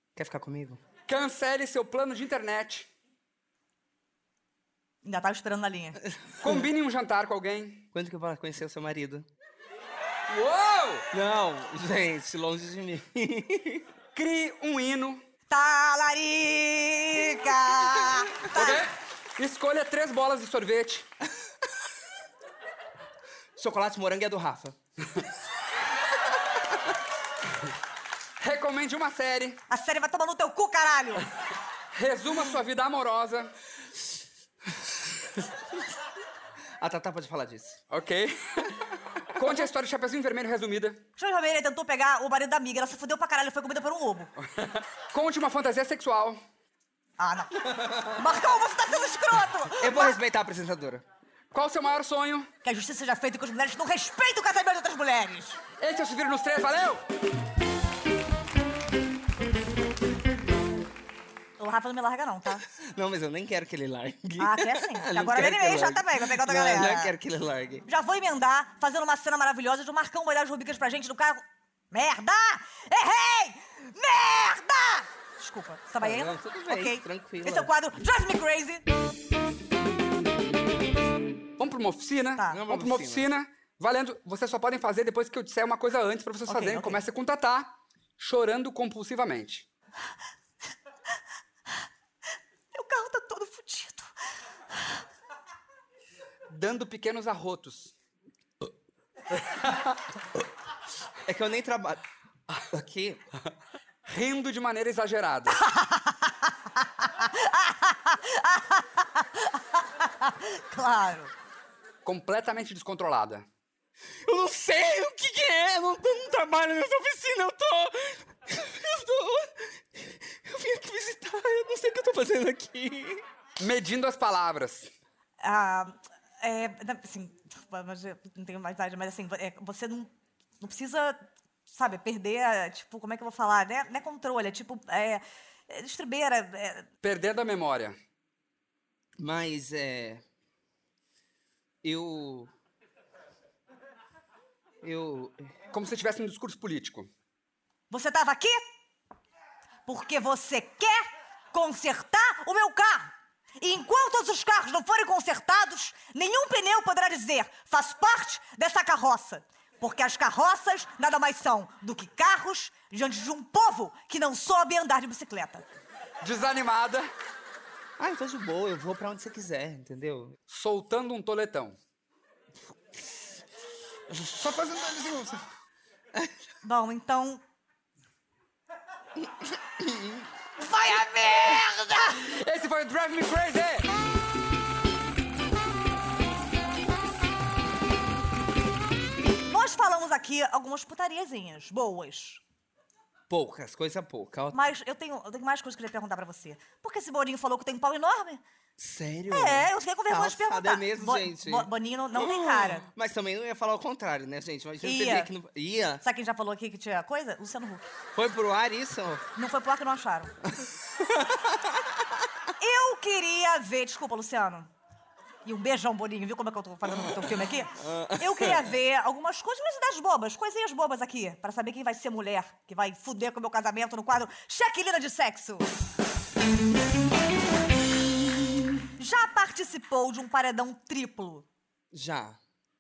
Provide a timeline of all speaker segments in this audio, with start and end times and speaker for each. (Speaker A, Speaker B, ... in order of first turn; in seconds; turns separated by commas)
Speaker A: 0.2-0.8, Speaker B: 1.1-2.9, Speaker C: 5.0-6.0, Speaker A: 6.4-6.6, Speaker B: 6.4-7.8, Speaker A: 7.9-9.3, Speaker B: 10.3-11.1, Speaker A: 11.1-13.9, Speaker B: 14.2-15.2, Speaker C: 15.5-18.9, Speaker B: 18.5-21.1, Speaker A: 23.6-24.8, Speaker B: 28.4-29.6, Speaker C: 29.7-31.3, Speaker B: 31.9-33.5, Speaker A: 36.8-37.8, Speaker B: 37.9-38.8, Speaker B: 39.3-41.0, Speaker C: 41.2-44.3, Speaker B: 44.4-46.4, Speaker C: 47.2-50.2, Speaker A: 47.7-48.2, Speaker A: 49.8-51.0, Speaker B: 51.5-52.5, Speaker C: 52.6-55.6, Speaker B: 55.8-57.0, Speaker C: 61.6-62.6, Speaker A: 62.8-67.8, Speaker C: 64.4-67.1, Speaker C: 67.9-78.8, Speaker A: 76.0-77.7, Speaker B: 81.6-89.7, Speaker A: 82.5-83.3, Speaker C: 86.5-87.0, Speaker C: 92.7-94.1, Speaker B: 96.5-97.9, Speaker B: 99.3-99.8, Speaker A: 101.3-102.0, Speaker A: 102.7-103.2, Speaker B: 104.1-105.6, Speaker C: 105.5-111.3, Speaker B: 112.0-113.5, Speaker A: 114.2-123.2, Speaker B: 123.6-124.9, Speaker C: 125.4-136.9, Speaker B: 137.0-138.0, Speaker A: 139.2-140.2, Speaker A: 141.8-142.5, Speaker A: 144.8-145.5, Speaker B: 145.7-147.1, Speaker C: 147.9-148.7, Speaker C: 149.9-165.7, Speaker B: 166.2-167.1, Speaker A: 168.0-170.4, Speaker B: 170.5-171.8, Speaker B: 174.1-175.4, Speaker C: 176.6-177.4, Speaker A: 179.8-180.2, Speaker C: 180.6-182.2, Speaker B: 181.5-183.9, Speaker C: 189.2-192.4, Speaker A: 193.3-194.7, Speaker C: 194.5-198.4, Speaker A: 198.8-206.0, Speaker C: 199.3-202.9, Speaker C: 204.8-205.3, Speaker C: 206.0-207.9, Speaker A: 208.2-209.3, Speaker C: 209.3-210.4, Speaker A: 210.6-212.0, Speaker C: 212.6-214.7, Speaker C: 215.4-225.7, Speaker A: 216.9-218.7, Speaker C: 229.0-231.5, Speaker A: 231.9-232.4